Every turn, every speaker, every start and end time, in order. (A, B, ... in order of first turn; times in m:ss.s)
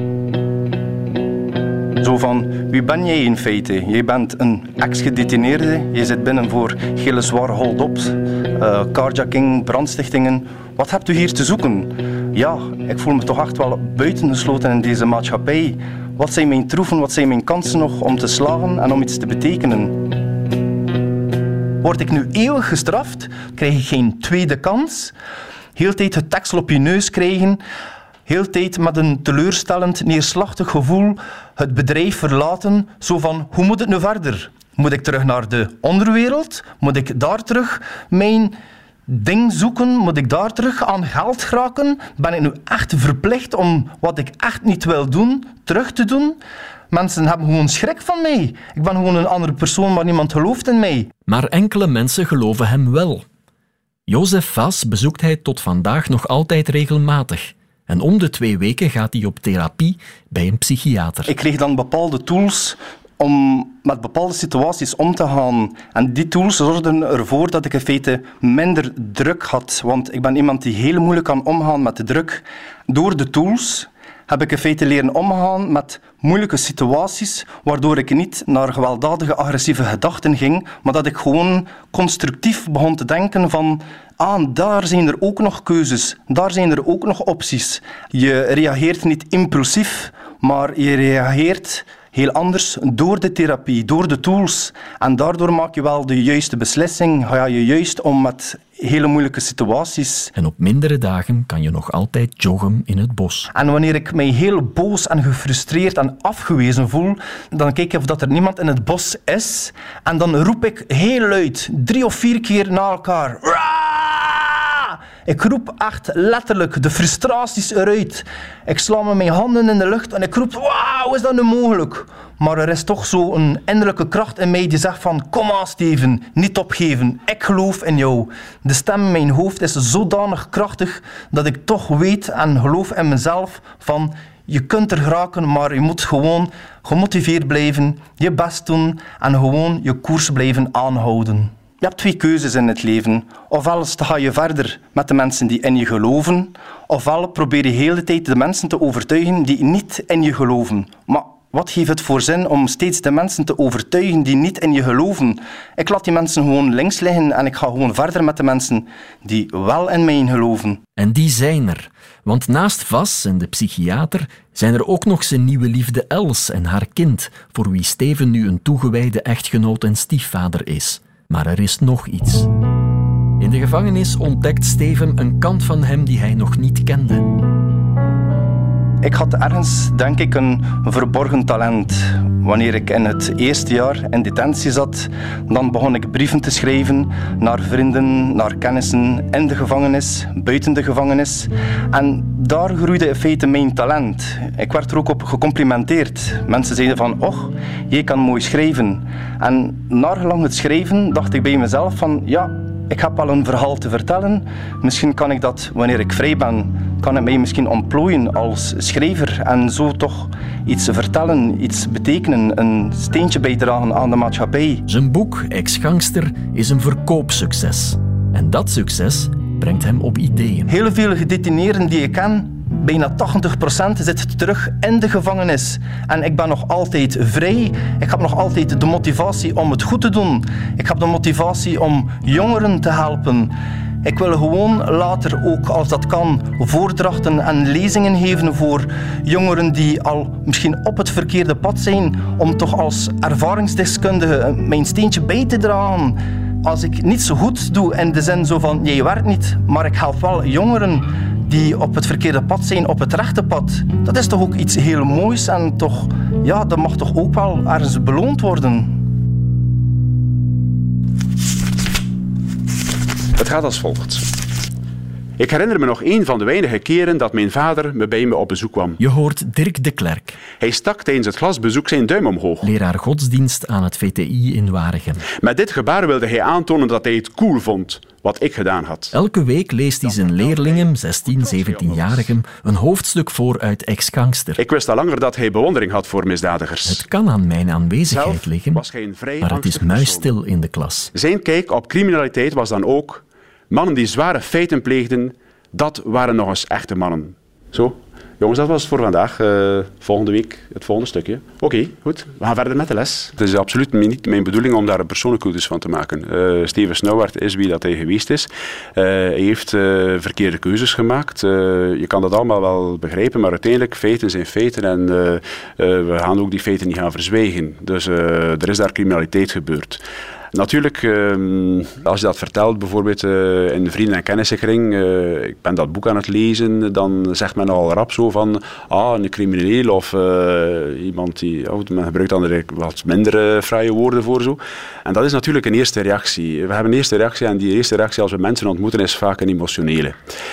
0:02.0-0:20.0 A
0:21.8-0:25.1 A
0:25.8-0:27.6 A
0:28.2-0:38.6 A
0:39.1-0:46.4 A
0:46.9-0:51.1 A
0:51.3-0:53.2 B
0:54.1-1:01.3 B
1:01.3-1:40.3 A
1:40.3-1:43.5 B
1:43.5-2:40.8 A
2:41.0-2:52.5 B
2:53.4-2:57.4 B
2:59.0-3:34.8 A
3:34.9-3:40.7 B
3:40.7-4:19.0 A
4:23.4-4:24.3 C
4:25.4-4:29.0 C
4:29.0-4:30.4 B
4:30.6-4:32.7 C
4:32.6-4:35.2 B
4:35.4-4:39.1 C
4:39.1-4:44.6 B
4:40.0-4:42.3 C
4:44.6-4:47.0 C
4:46.8-4:48.8 B
4:48.1-4:50.3 C
4:49.4-4:51.1 B
4:51.1-5:20.0 C
5:20.5-5:40.2 C